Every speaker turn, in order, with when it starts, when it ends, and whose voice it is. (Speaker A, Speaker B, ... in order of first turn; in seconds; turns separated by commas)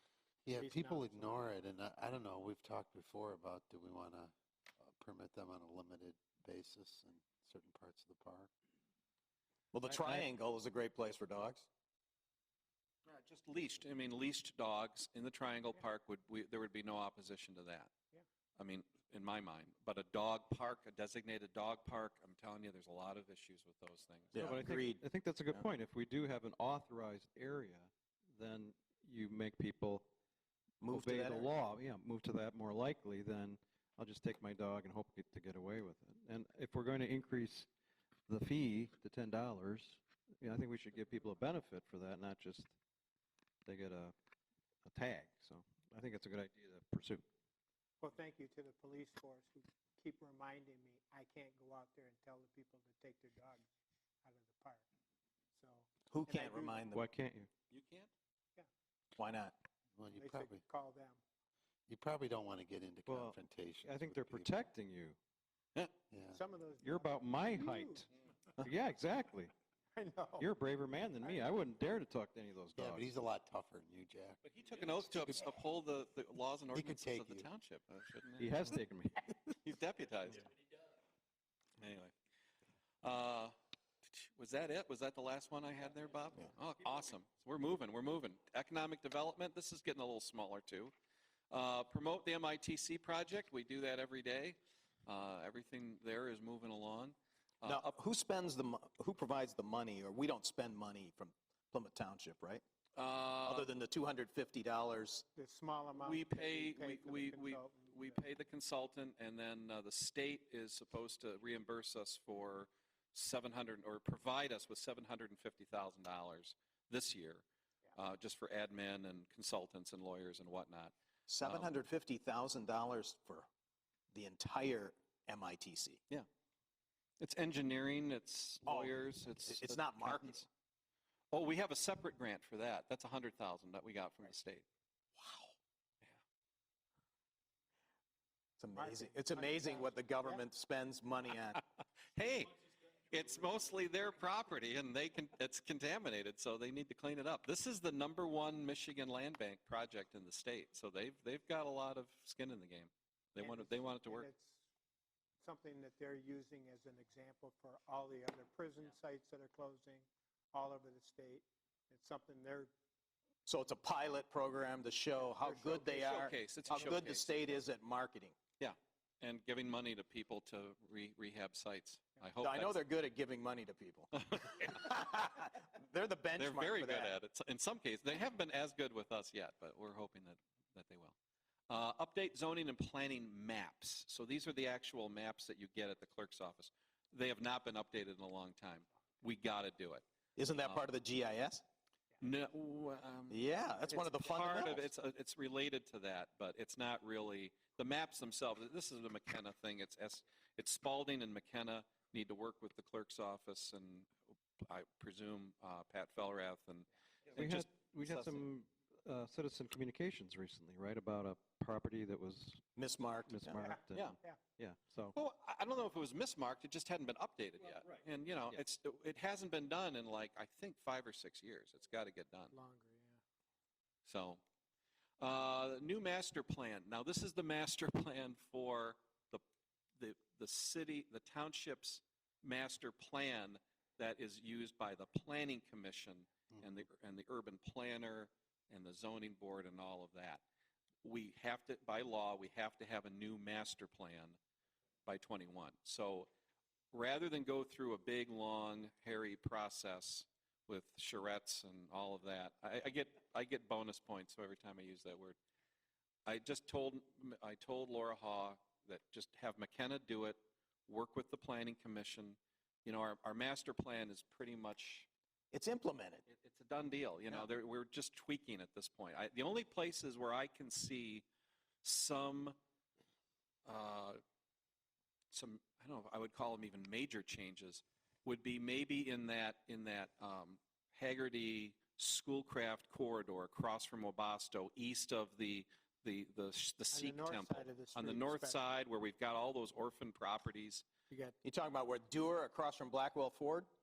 Speaker A: 0.4-8.5, Speaker B: 0.5-1.5, Speaker C: 9.7-11.7, Speaker D: 9.9-10.2, Speaker D: 13.1-17.9, Speaker D: 18.6-24.4, Speaker C: 24.3-25.6, Speaker E: 24.4-30.1, Speaker E: 30.8-37.7, Speaker C: 30.8-31.5, Speaker E: 38.3-42.7, Speaker E: 43.6-44.1, Speaker E: 44.9-47.2, Speaker B: 48.0-53.6, Speaker B: 54.2-54.9, Speaker B: 55.5-56.8, Speaker C: 56.1-57.0, Speaker E: 56.9-57.5, Speaker D: 57.7-58.1, Speaker C: 59.1-59.6, Speaker A: 60.0-60.6, Speaker B: 60.1-61.2, Speaker A: 61.9-64.5, Speaker E: 63.0-65.2, Speaker A: 66.1-66.4, Speaker B: 66.3-68.1, Speaker E: 66.8-69.5, Speaker B: 69.9-70.5, Speaker E: 70.4-73.0, Speaker A: 72.8-74.4, Speaker D: 74.4-78.8, Speaker A: 75.1-75.5, Speaker A: 76.7-77.5, Speaker E: 78.4-79.4, Speaker D: 79.6-80.5, Speaker D: 81.8-82.1, Speaker D: 83.0-90.9, Speaker D: 91.5-97.9, Speaker C: 97.6-102.6, Speaker D: 103.0-103.7, Speaker C: 103.4-105.2, Speaker B: 105.3-108.2, Speaker D: 106.0-117.4, Speaker D: 118.0-121.7, Speaker C: 121.3-123.5, Speaker C: 124.1-126.0, Speaker D: 127.2-130.5, Speaker C: 128.6-130.4, Speaker D: 131.3-134.7, Speaker C: 138.6-141.6, Speaker B: 138.8-140.4, Speaker D: 142.1-142.6, Speaker D: 143.1-154.3, Speaker B: 153.4-154.7, Speaker B: 155.4-162.7, Speaker C: 163.4-168.3, Speaker B: 165.4-167.0, Speaker D: 165.9-167.4, Speaker D: 168.6-172.8, Speaker C: 172.4-177.2, Speaker D: 174.1-175.0, Speaker D: 176.4-181.2, Speaker D: 181.7-190.0, Speaker C: 190.3-191.6, Speaker D: 192.2-208.4, Speaker C: 193.3-194.9, Speaker E: 207.3-212.6, Speaker C: 212.8-213.6, Speaker E: 213.2-215.2, Speaker B: 213.6-214.4, Speaker D: 215.1-222.5, Speaker B: 222.5-223.2, Speaker D: 224.1-224.4, Speaker D: 225.2-229.4, Speaker D: 230.0-240.4, Speaker D: 241.0-244.4, Speaker D: 245.1-246.3, Speaker D: 246.9-255.3, Speaker D: 256.2-265.1, Speaker C: 265.5-266.2, Speaker D: 266.2-271.2, Speaker D: 271.8-272.6, Speaker D: 273.6-274.2, Speaker D: 275.3-290.8, Speaker B: 286.9-288.6, Speaker B: 291.1-291.4, Speaker C: 291.4-293.7